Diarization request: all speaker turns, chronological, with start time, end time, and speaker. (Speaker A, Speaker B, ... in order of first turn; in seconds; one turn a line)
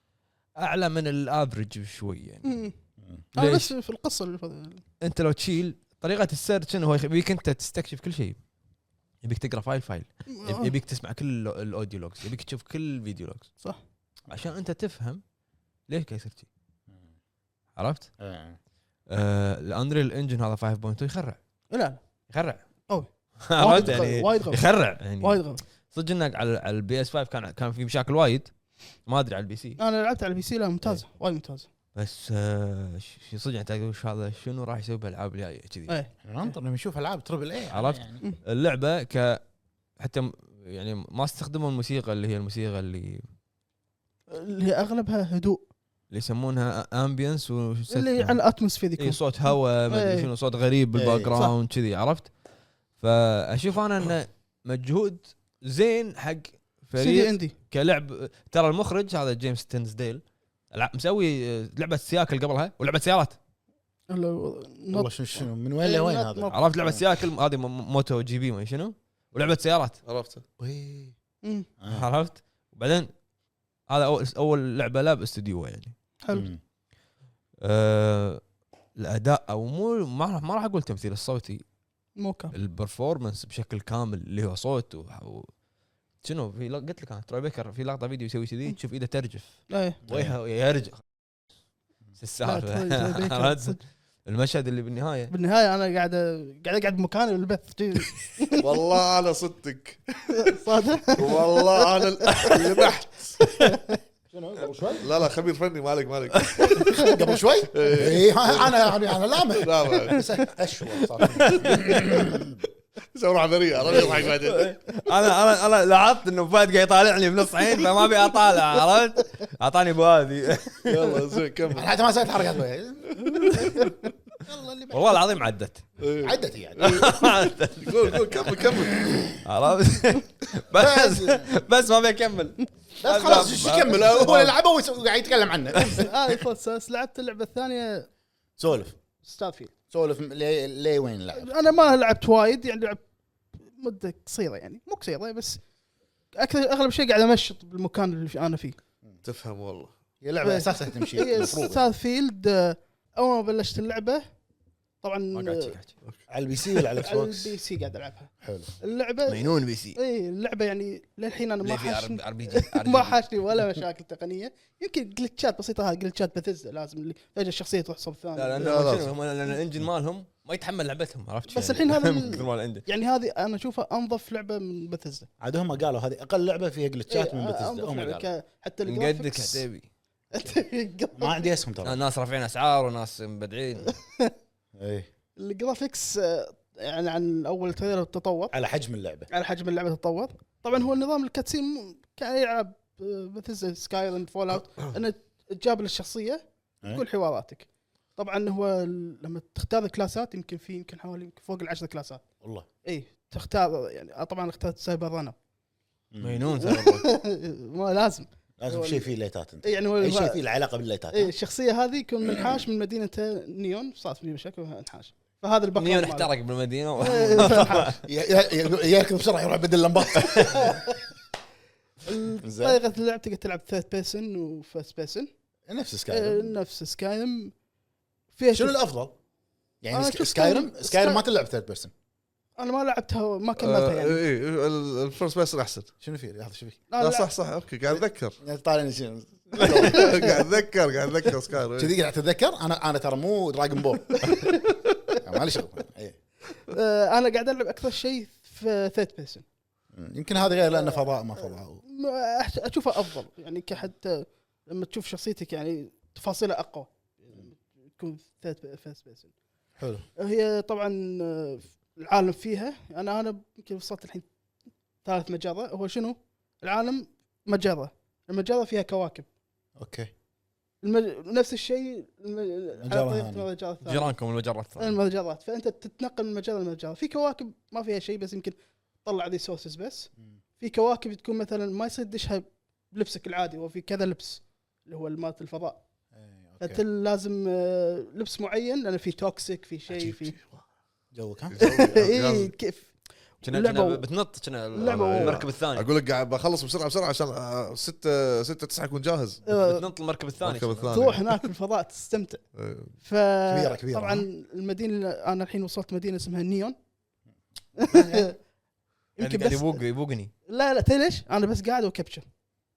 Speaker A: 0.6-2.5
Speaker B: 2.5-2.7
Speaker C: 3.0-3.2
Speaker B: 3.4-4.8
Speaker A: 3.4-3.7
Speaker A: 5.0-8.4
Speaker A: 9.2-13.5
Speaker B: 10.3-10.7
Speaker A: 14.3-15.2
Speaker A: 15.9-16.5
Speaker A: 17.8-18.1
Speaker C: 18.2-18.6
Speaker A: 19.1-21.4
Speaker B: 21.7-22.0
Speaker A: 22.3-22.6
Speaker B: 22.9-24.6
Speaker A: 23.4-28.5
Speaker C: 23.7-24.0
Speaker B: 25.2-25.6
Speaker A: 29.1-29.8
Speaker B: 29.8-31.7
Speaker A: 31.9-35.9
Speaker B: 35.9-36.5
Speaker C: 36.2-38.2
Speaker A: 37.7-39.4
Speaker A: 40.0-43.3
Speaker B: 44.3-45.6
Speaker A: 46.1-48.4
Speaker B: 47.9-50.3
Speaker A: 49.0-52.3
Speaker C: 51.0-51.4
Speaker A: 53.0-63.4
Speaker B: 57.0-57.5
Speaker B: 64.1-66.6
Speaker C: 64.9-67.0
Speaker A: 66.5-70.0
Speaker D: 70.1-70.4
Speaker C: 70.6-71.2
Speaker C: 71.8-72.1
Speaker A: 71.9-73.1
Speaker A: 73.9-75.9
Speaker C: 76.3-76.6
Speaker A: 77.6-78.4
Speaker A: 79.0-81.6
Speaker B: 82.2-82.5
Speaker A: 82.5-85.5
Speaker A: 86.2-91.0
Speaker B: 89.7-90.0
Speaker C: 90.1-90.4
Speaker A: 92.2-95.3
Speaker B: 92.4-93.8
Speaker B: 95.3-98.6
Speaker D: 98.6-100.0
Speaker B: 100.3-102.6
Speaker D: 101.2-103.4
Speaker B: 103.4-104.0
Speaker C: 104.3-105.1
Speaker D: 105.0-106.9
Speaker A: 106.5-106.8
Speaker B: 106.8-107.1
Speaker C: 106.9-112.6
Speaker D: 107.7-108.8
Speaker D: 109.6-110.2
Speaker A: 111.2-112.2
Speaker D: 113.1-114.8
Speaker C: 113.7-114.3
Speaker A: 113.9-121.2
Speaker D: 120.9-121.9
Speaker C: 121.7-123.6
Speaker D: 123.3-123.8
Speaker C: 124.5-125.2
Speaker A: 124.9-125.8
Speaker D: 126.0-129.1
Speaker C: 126.2-127.1
Speaker A: 126.8-128.7
Speaker C: 129.0-129.4
Speaker A: 129.4-134.5
Speaker C: 130.7-131.5
Speaker C: 133.0-136.1
Speaker B: 135.9-138.1
Speaker C: 138.6-139.0
Speaker B: 139.2-139.7
Speaker C: 139.9-141.6
Speaker B: 141.4-143.0
Speaker B: 143.6-145.6
Speaker B: 146.3-148.8
Speaker D: 149.2-149.9
Speaker C: 150.2-151.8
Speaker B: 150.4-154.2
Speaker B: 155.0-155.7
Speaker A: 155.3-155.9
Speaker C: 156.3-157.5
Speaker B: 157.0-158.3
Speaker C: 158.4-158.7
Speaker B: 158.8-168.9
Speaker A: 159.3-160.0
Speaker A: 161.6-163.2
Speaker A: 168.4-172.9
Speaker D: 168.6-169.1
Speaker B: 171.5-175.3
Speaker C: 175.4-178.3
Speaker B: 177.1-179.7
Speaker A: 178.9-179.9
Speaker B: 180.3-181.5
Speaker C: 181.2-182.0
Speaker A: 181.8-183.9
Speaker B: 184.1-184.3
Speaker C: 184.8-185.1
Speaker B: 185.4-188.5
Speaker C: 188.5-189.3
Speaker B: 189.3-202.2
Speaker B: 202.8-205.3
Speaker C: 206.1-206.5
Speaker A: 206.2-207.1
Speaker B: 206.6-209.1
Speaker C: 208.6-211.3
Speaker B: 209.6-210.4
Speaker B: 211.1-216.3
Speaker C: 212.3-212.6
Speaker A: 215.8-218.0
Speaker B: 217.0-218.0
Speaker C: 217.3-220.9
Speaker B: 220.2-221.0
Speaker B: 222.0-225.3
Speaker C: 222.4-222.8
Speaker C: 225.7-226.6
Speaker B: 226.1-227.5
Speaker B: 228.3-228.8
Speaker C: 228.5-229.2
Speaker C: 229.8-231.9
Speaker B: 229.9-231.2
Speaker B: 232.6-234.2
Speaker D: 233.6-235.9
Speaker C: 236.0-236.8
Speaker B: 236.9-237.3
Speaker D: 237.0-238.4
Speaker C: 238.0-240.4
Speaker D: 239.6-241.9
Speaker B: 239.6-240.3
Speaker C: 241.8-244.4
Speaker B: 244.2-244.7
Speaker C: 245.2-246.2
Speaker B: 246.7-249.4
Speaker C: 249.9-251.8
Speaker B: 250.7-251.1
Speaker B: 251.8-259.3
Speaker C: 259.8-260.1
Speaker B: 260.2-264.3
Speaker B: 265.0-269.3
Speaker C: 269.8-270.1
Speaker B: 270.8-274.1
Speaker C: 272.8-273.5
Speaker A: 273.9-275.0
Speaker B: 274.8-285.8
Speaker C: 286.1-286.8
Speaker B: 286.6-290.4
Speaker D: 289.9-290.6
Speaker C: 291.1-291.6
Speaker D: 291.5-292.5
Speaker B: 291.6-294.1
Speaker A: 293.4-295.9
Speaker B: 294.7-295.4
Speaker D: 294.9-299.4
Speaker B: 299.5-299.9
Speaker A: 299.6-301.1
Speaker D: 300.4-301.4
Speaker B: 300.9-302.4
Speaker D: 302.6-302.9
Speaker B: 303.0-306.8
Speaker C: 303.5-304.3
Speaker B: 307.8-308.4
Speaker C: 307.8-308.3
Speaker B: 309.2-309.8
Speaker A: 309.2-310.3
Speaker B: 310.5-312.2